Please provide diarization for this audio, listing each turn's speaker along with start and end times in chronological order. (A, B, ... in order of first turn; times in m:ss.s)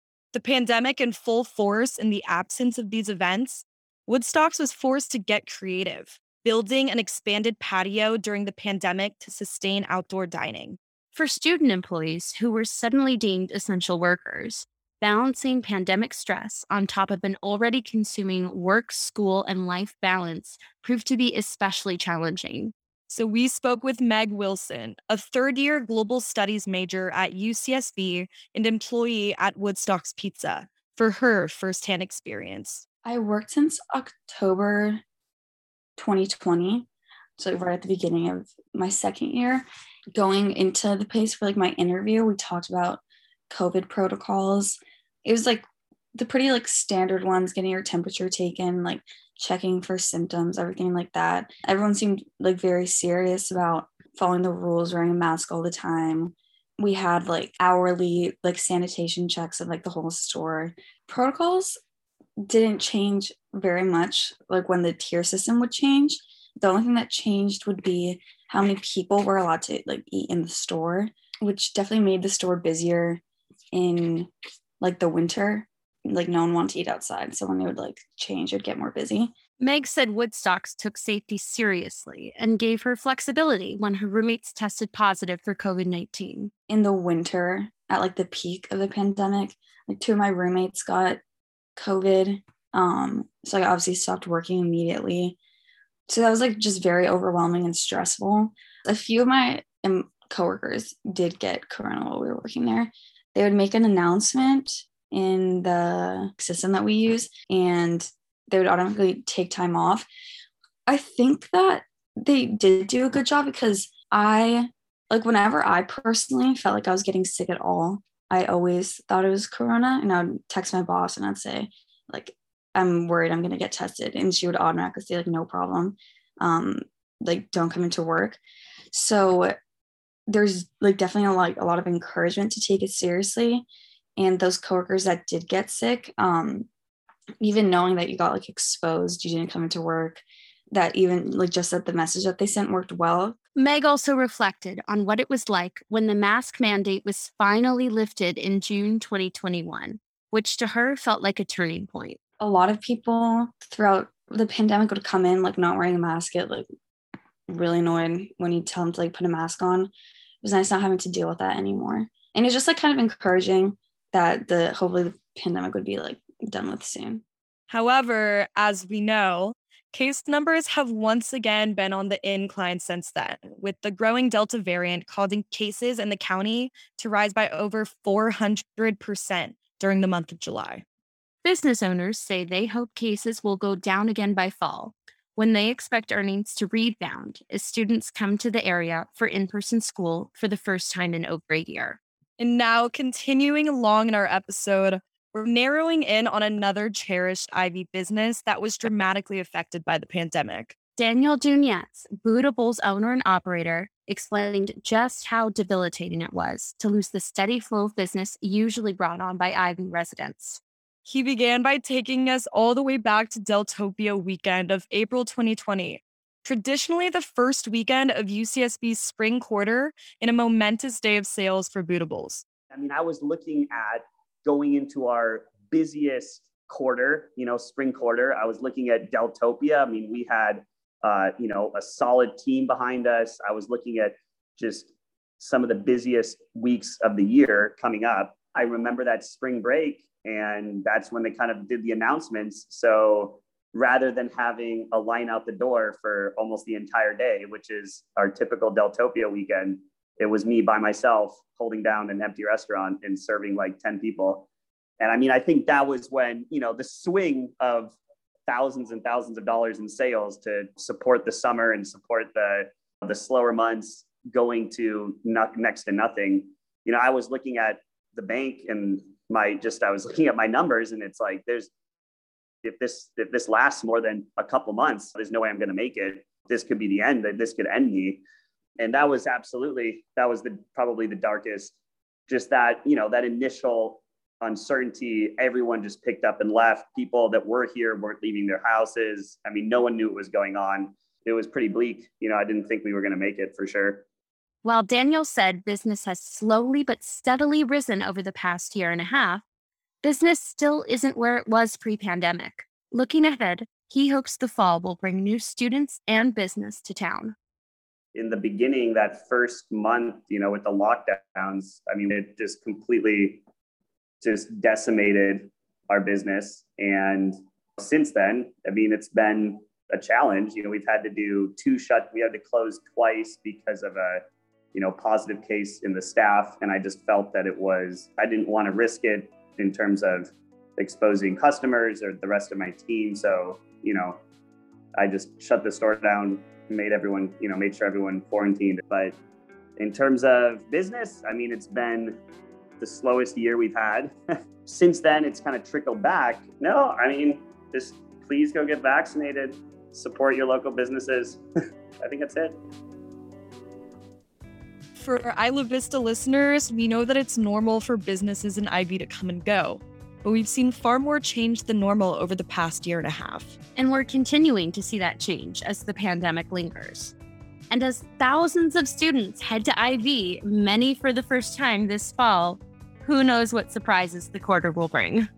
0:00.3-0:10.8 A
0:11.1-0:22.7 B
0:23.1-0:32.8 A
0:33.0-0:35.0 C
0:36.0-0:36.8 C
0:37.4-1:01.8 C
1:02.4-1:13.2 C
1:13.7-1:19.3 C
1:19.6-1:26.5 B
1:26.7-1:31.2 C
1:31.8-1:35.4 C
1:36.1-1:50.1 C
1:50.9-2:08.4 C
2:08.9-2:09.5 C
2:10.3-2:13.6 C
2:14.2-2:16.7 C
2:17.4-2:23.4 C
2:23.6-2:32.2 B
2:32.4-2:36.7 C
2:37.5-2:47.2 C
2:47.7-3:00.8 A
3:01.4-3:12.0 B
3:12.4-3:20.7 A
3:21.0-3:30.6 B
3:31.0-3:42.4 A
3:42.7-4:14.5 D
4:15.0-4:18.0 D
4:18.5-4:31.7 D
4:32.6-4:38.2 D
4:38.8-4:41.7 D
4:42.3-4:54.0 D
4:54.6-4:59.4 B
5:00.0-5:07.3 B
5:08.1-5:13.4 D
5:14.2-5:24.2 D
5:24.7-5:34.2 D
5:35.0-5:39.2 D
5:39.8-5:42.2 D
5:42.8-5:51.4 D
5:52.0-5:52.6 D
5:55.0-6:03.6 A
6:03.8-6:07.1 B
6:07.7-6:15.3 B